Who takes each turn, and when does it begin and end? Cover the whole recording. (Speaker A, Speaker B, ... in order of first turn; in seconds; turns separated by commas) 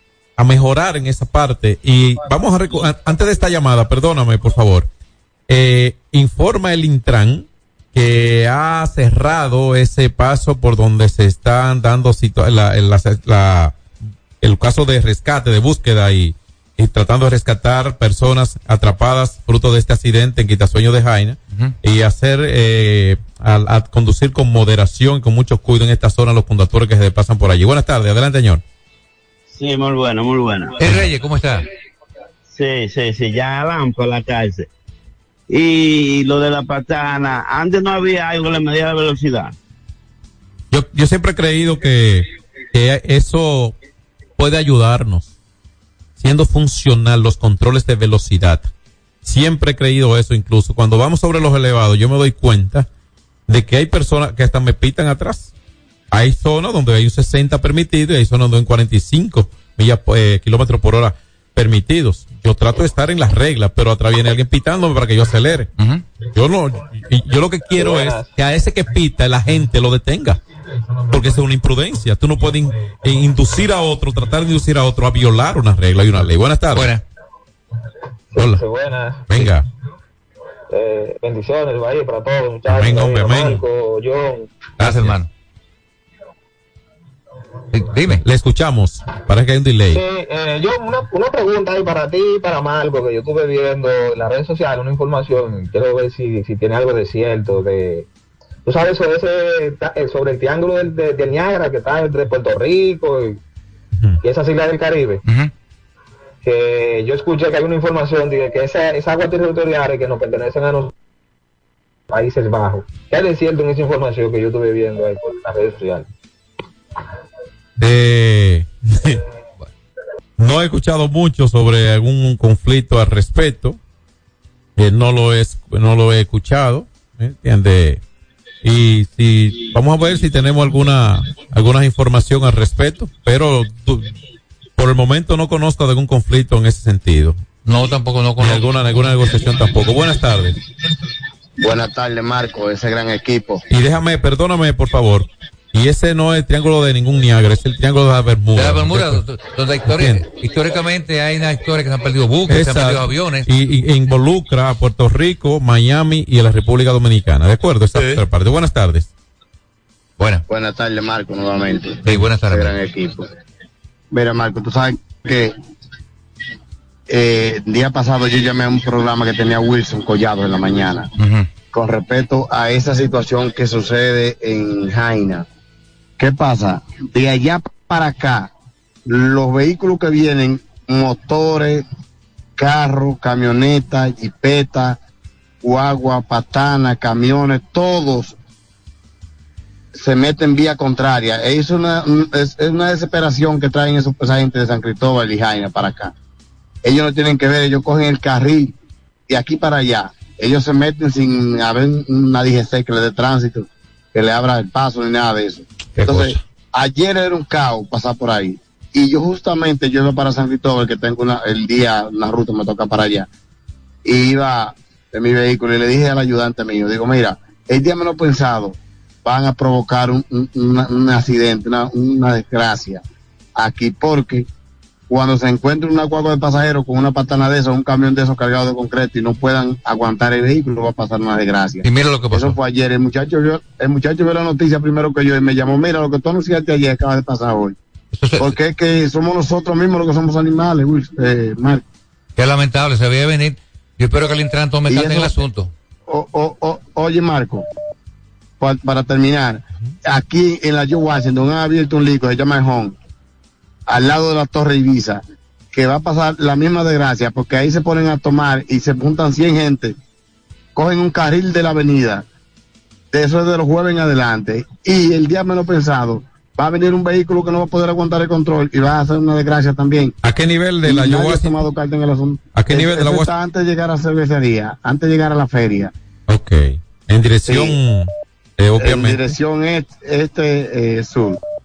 Speaker A: 0.4-4.9, Speaker A: 5.5-13.8, Speaker A: 14.4-28.6, Speaker B: 29.5-30.8, Speaker C: 30.8-31.6, Speaker B: 32.5-34.7, Speaker B: 35.5-39.5, Speaker A: 40.7-43.8, Speaker A: 44.4-45.3, Speaker A: 46.2-48.7, Speaker A: 49.2-52.9, Speaker A: 53.5-55.5, Speaker A: 56.1-65.7, Speaker C: 65.8-66.0, Speaker A: 66.3-70.4, Speaker D: 67.8-68.3, Speaker A: 71.1-76.9, Speaker C: 76.7-77.0, Speaker D: 78.3-79.2, Speaker A: 78.3-78.6, Speaker A: 79.3-79.7, Speaker D: 80.7-84.5, Speaker A: 82.7-83.6, Speaker A: 84.8-85.2, Speaker C: 84.8-85.3, Speaker C: 87.7-88.2, Speaker A: 88.2-90.0, Speaker D: 89.9-98.1, Speaker D: 98.7-103.4, Speaker D: 104.2-105.2, Speaker C: 105.2-105.5, Speaker D: 106.4-110.9, Speaker D: 112.1-116.1, Speaker A: 117.8-119.2, Speaker A: 120.4-123.8, Speaker A: 124.8-128.0, Speaker A: 128.6-134.1, Speaker A: 134.8-137.4, Speaker C: 137.7-138.6, Speaker A: 138.4-140.6, Speaker E: 141.6-143.6, Speaker A: 143.7-149.2, Speaker C: 148.6-153.5, Speaker A: 149.9-150.2, Speaker A: 152.5-159.1, Speaker E: 160.5-163.3, Speaker C: 162.1-162.8, Speaker E: 164.1-165.6, Speaker E: 167.1-171.1, Speaker C: 171.2-171.5, Speaker E: 171.7-175.5, Speaker E: 176.2-178.5, Speaker E: 179.1-181.8, Speaker E: 182.6-185.0, Speaker E: 185.6-188.4, Speaker E: 189.9-196.1, Speaker E: 196.8-198.8, Speaker E: 199.3-213.3, Speaker A: 206.0-206.4, Speaker E: 214.1-223.0, Speaker E: 223.6-224.5, Speaker E: 225.1-237.8, Speaker C: 231.8-232.6, Speaker C: 238.1-238.6, Speaker E: 238.4-241.8, Speaker C: 242.4-245.7, Speaker E: 244.9-245.3, Speaker E: 246.1-247.7, Speaker E: 248.6-252.9, Speaker E: 253.9-259.9, Speaker E: 260.8-262.2, Speaker E: 263.1-270.1, Speaker A: 270.2-271.7, Speaker E: 270.9-275.9, Speaker A: 272.5-273.3, Speaker A: 276.3-279.3, Speaker E: 277.5-277.8, Speaker E: 278.8-281.4